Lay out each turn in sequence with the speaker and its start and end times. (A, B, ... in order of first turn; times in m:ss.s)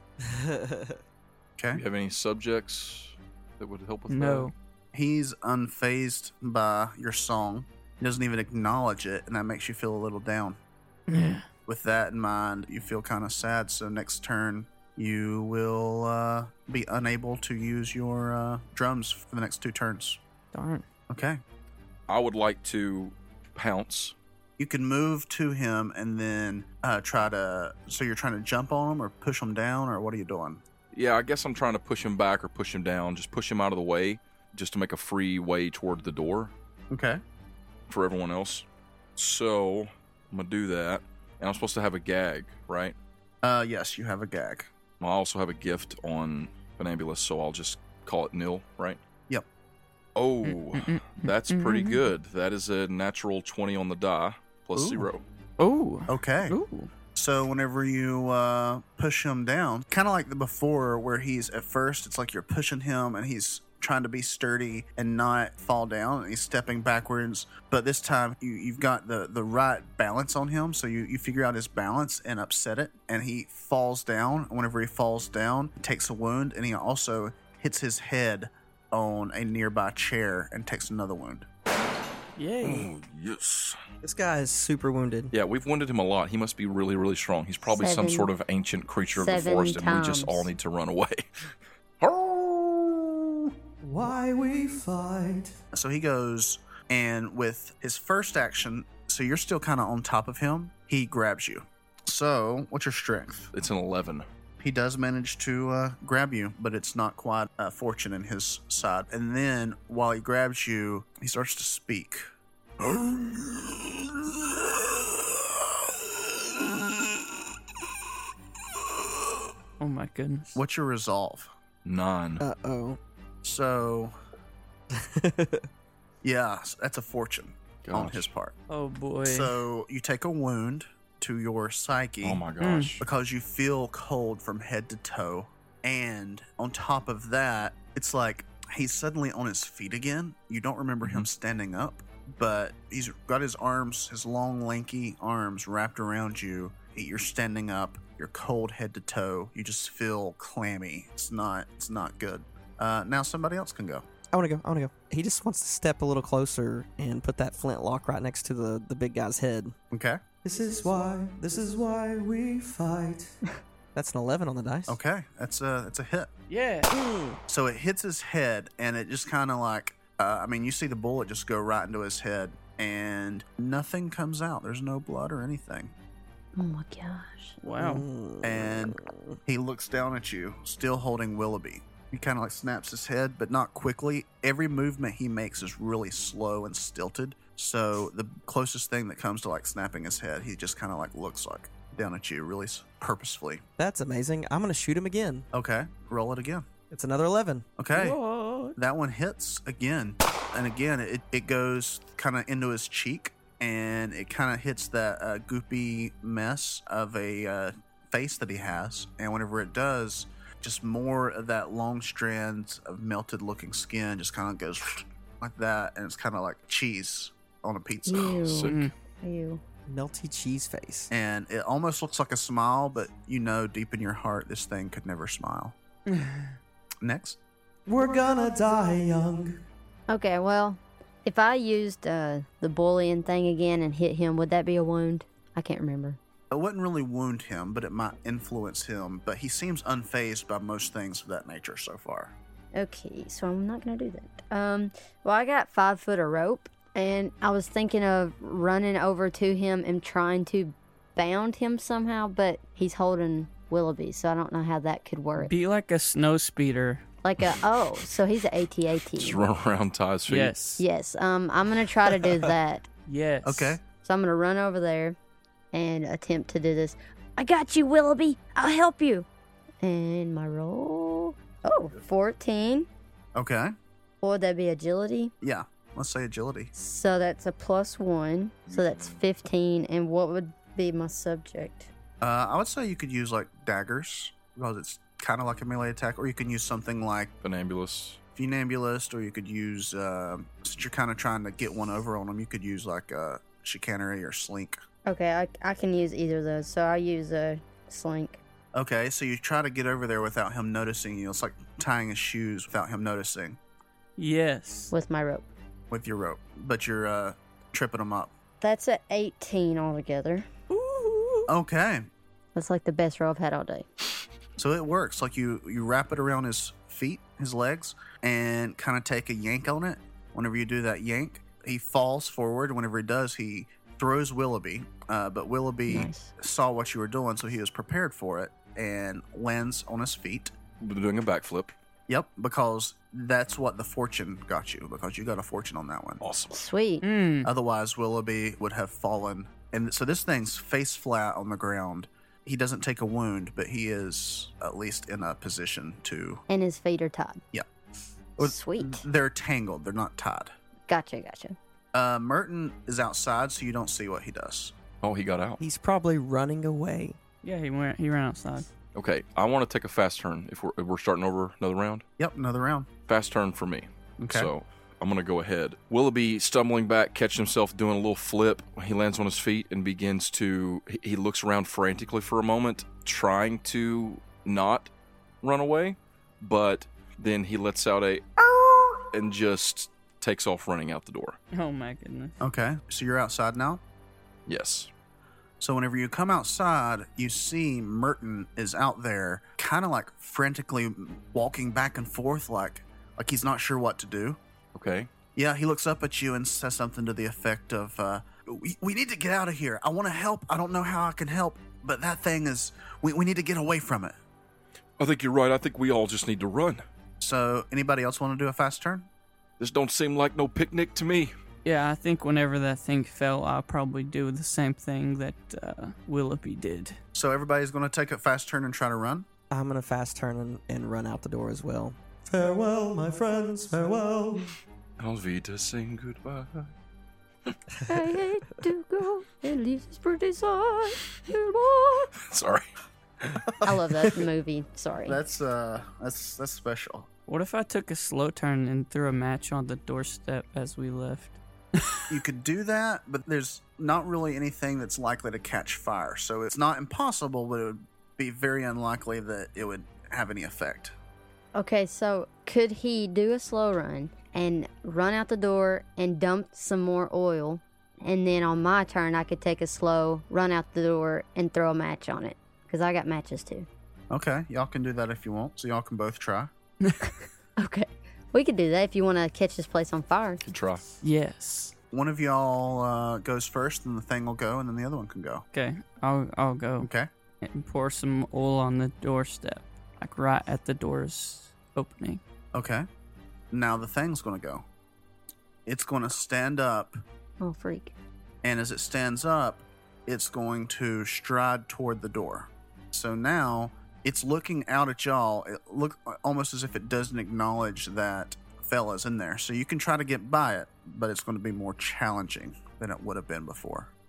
0:00.2-0:01.0 A
0:01.6-0:01.8 B
0:01.7-0:04.5 C
0:04.1-0:04.5 D
0:04.9-0:10.6 B
0:11.1-0:11.5 D
0:11.7-0:20.2 B
0:20.5-0:20.8 D
0:21.1-0:21.4 B
0:22.1-0:24.1 C
0:24.6-0:30.6 B
0:30.9-0:36.5 C
0:36.9-0:37.2 B
0:37.9-0:38.6 C
0:39.2-0:43.0 C
0:43.4-0:44.7 B
0:45.0-0:49.0 C
0:50.1-0:55.2 C
0:50.4-0:52.0 D
0:54.8-0:55.1 B
0:55.6-0:56.9 D
0:56.1-0:56.6 B
0:57.1-1:21.5 B
1:22.4-1:22.9 D
1:22.6-1:23.8 C
1:24.0-1:25.3 A
1:25.3-1:33.2 C
1:27.7-1:28.3 E
1:29.1-1:30.5 E
1:33.9-1:35.5 F
1:35.7-1:43.5 B
1:43.5-1:44.2 C
1:44.6-1:52.2 B
1:52.8-1:54.0 B
1:59.8-2:00.5 D
2:00.5-2:01.5 B
2:01.8-2:02.4 C
2:02.4-2:03.0 A
2:03.4-2:04.1 B
2:04.9-2:05.6 A
2:06.2-2:08.5 B
2:07.8-2:08.3 C
2:08.7-2:09.5 D
2:09.2-2:12.4 B
2:12.2-2:13.0 C
2:12.6-2:12.9 D
2:13.0-2:34.1 B
2:34.3-2:39.7 A
2:39.9-2:40.2 B
2:40.4-2:43.3 F
2:43.9-2:45.0 A
2:44.9-2:46.3 B
2:46.5-2:46.9 D
2:46.9-2:47.4 A
2:47.5-2:55.9 B
2:56.6-2:57.6 E
2:57.6-2:58.0 D
2:57.8-2:59.4 A
2:58.4-3:13.6 B
3:13.8-3:15.5 A
3:15.5-3:16.7 B
3:16.9-3:17.7 A
3:17.8-3:18.2 B
3:17.9-3:18.8 D
3:18.7-3:38.7 B
3:38.0-3:39.6 E
3:38.4-3:38.9 C
3:38.7-3:38.9 D
3:39.9-3:41.1 A
3:41.1-3:45.7 B
3:46.1-3:46.6 D
3:47.0-3:47.4 B
3:47.9-3:49.5 F
3:50.1-3:56.2 E
3:56.5-4:02.3 B
4:02.7-4:15.5 E
4:15.4-4:17.0 D
4:17.2-4:19.4 E
4:19.2-4:20.5 C
4:20.3-4:20.8 D
4:20.8-4:22.9 E
4:23.1-4:23.8 D
4:23.4-4:23.8 B
4:24.0-4:25.2 E
4:25.7-4:29.2 E
4:29.8-4:32.9 E
4:33.3-4:33.7 B
4:34.2-4:35.3 E
4:35.4-4:36.7 B
4:36.7-4:41.9 E
4:38.7-4:39.2 C
4:42.2-4:47.3 B
4:47.4-4:48.2 C
4:48.4-4:54.8 B
4:55.0-4:58.4 E
4:58.7-5:03.6 B
5:04.2-5:04.9 D
5:04.9-5:05.5 E
5:05.9-5:08.3 B
5:08.6-5:10.4 E
5:10.7-5:11.5 D
5:11.5-5:12.1 B
5:12.5-5:13.9 E
5:14.6-5:30.5 B
5:25.9-5:26.3 E
5:30.8-5:31.7 C
5:32.1-5:36.2 B
5:36.2-5:36.6 C
5:36.5-5:37.0 E
5:37.0-5:37.5 D
5:37.4-5:46.4 B
5:46.5-5:47.4 E
5:48.4-5:50.5 B
5:48.4-5:49.0 E
5:50.9-5:51.6 E
5:51.9-5:54.7 B
5:55.0-5:55.6 C
5:55.6-5:57.2 A
5:57.4-5:58.7 D
5:58.9-6:02.0 C
6:02.2-6:02.9 B
6:03.1-6:14.9 C
6:04.2-6:04.5 B
6:15.4-6:18.3 C
6:19.0-6:21.4 C
6:21.5-6:22.4 D
6:22.4-6:23.8 B
6:24.5-6:24.9 C
6:25.6-6:34.4 B
6:34.7-6:35.1 C
6:35.4-6:44.1 B
6:45.0-6:46.8 C
6:47.2-6:49.1 B
6:49.6-6:51.3 C
6:51.6-6:57.0 D
6:57.1-6:59.3 B
6:59.5-7:02.0 A
7:02.3-7:04.4 F
7:05.0-7:06.7 C
7:07.9-7:12.1 E
7:12.2-7:12.7 C
7:13.2-7:13.6 C
7:13.6-7:15.2 E
7:15.0-7:17.1 B
7:17.3-7:22.0 D
7:22.1-7:30.9 B
7:31.5-7:43.7 E
7:44.1-7:46.5 B
7:46.8-7:47.1 D
7:47.6-7:50.4 E
7:50.4-7:50.8 C
7:51.0-7:51.7 D
7:51.9-7:55.4 B
7:55.5-7:56.9 D
7:56.8-7:57.1 B
7:57.4-8:02.2 D
8:02.5-8:02.8 B
8:03.5-8:04.6 B
8:05.6-8:07.0 B
8:07.4-8:07.9 E
8:08.4-8:23.9 B